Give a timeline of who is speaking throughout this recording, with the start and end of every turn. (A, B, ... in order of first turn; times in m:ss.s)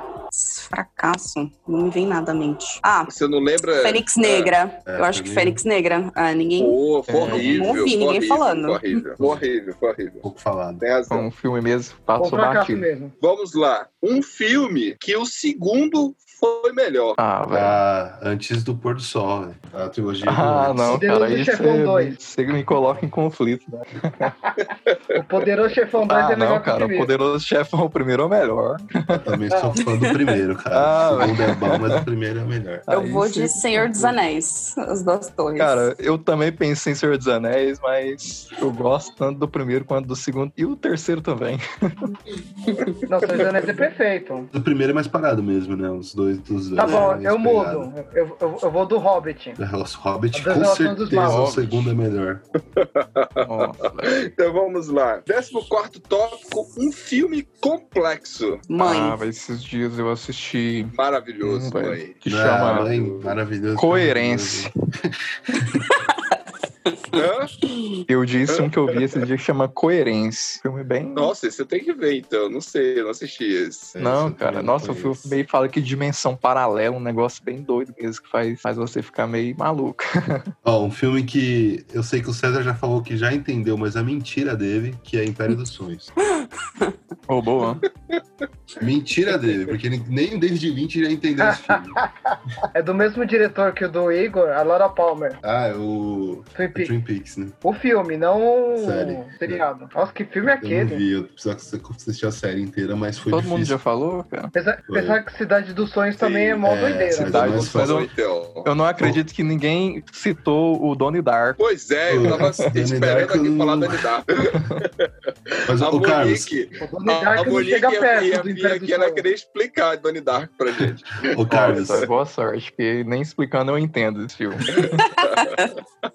0:00.3-0:03.1 A
0:03.1-0:04.5 B
0:03.8-0:09.0 A
0:04.8-0:05.6 C
0:06.6-0:10.2 B
0:07.1-0:07.9 D
0:09.2-0:09.5 C
0:10.2-0:10.8 C
0:10.8-0:11.3 B
0:11.1-0:12.9 D
0:12.2-0:13.1 E
0:13.2-0:17.2 B
0:17.2-0:17.8 D
0:17.5-0:21.1 C
0:20.2-0:24.3 D
0:20.9-0:22.2 E
0:24.2-0:27.1 E
0:26.1-0:29.3 D
0:29.1-0:32.8 C
0:29.5-0:29.8 E
0:29.8-0:30.1 A
0:30.7-0:32.0 D
0:32.9-0:34.2 D
0:32.9-0:35.9 A
0:35.6-0:42.1 D
0:43.1-0:44.5 E
0:44.5-0:47.9 C
0:46.8-0:49.6 E
0:46.8-0:47.1 A
0:49.6-0:52.4 C
0:50.3-0:51.5 E
0:51.1-0:51.9 D
0:52.8-0:58.7 B
0:53.4-0:54.2 D
0:58.7-0:59.2 A
0:58.8-1:02.9 D
1:00.9-1:02.2 B
1:02.2-1:05.8 C
1:02.9-1:03.4 B
1:03.8-1:04.7 D
1:07.1-1:07.5 B
1:08.1-1:11.3 D
1:08.5-1:09.2 B
1:11.1-1:13.9 B
1:14.0-1:15.3 C
1:14.0-1:20.5 D
1:20.6-1:26.1 C
1:26.3-1:27.0 A
1:27.3-1:27.8 D
1:28.8-1:32.0 C
1:31.4-1:35.4 E
1:35.4-1:37.6 C
1:36.5-1:36.9 E
1:37.6-1:41.0 E
1:38.8-1:39.6 C
1:40.4-1:43.8 C
1:43.3-1:44.5 D
1:44.5-1:47.6 E
1:44.9-1:45.2 C
1:46.2-1:46.6 B
1:46.6-1:48.0 C
1:47.2-1:48.1 D
1:47.5-1:48.7 B
1:48.6-1:51.6 D
1:51.6-2:02.1 B
1:52.1-1:54.0 C
1:52.2-1:52.7 D
1:54.6-1:54.8 D
1:55.7-1:56.6 C
1:56.8-1:59.3 E
2:01.2-2:02.1 C
2:01.5-2:05.0 D
2:04.8-2:05.5 B
2:05.0-2:05.7 A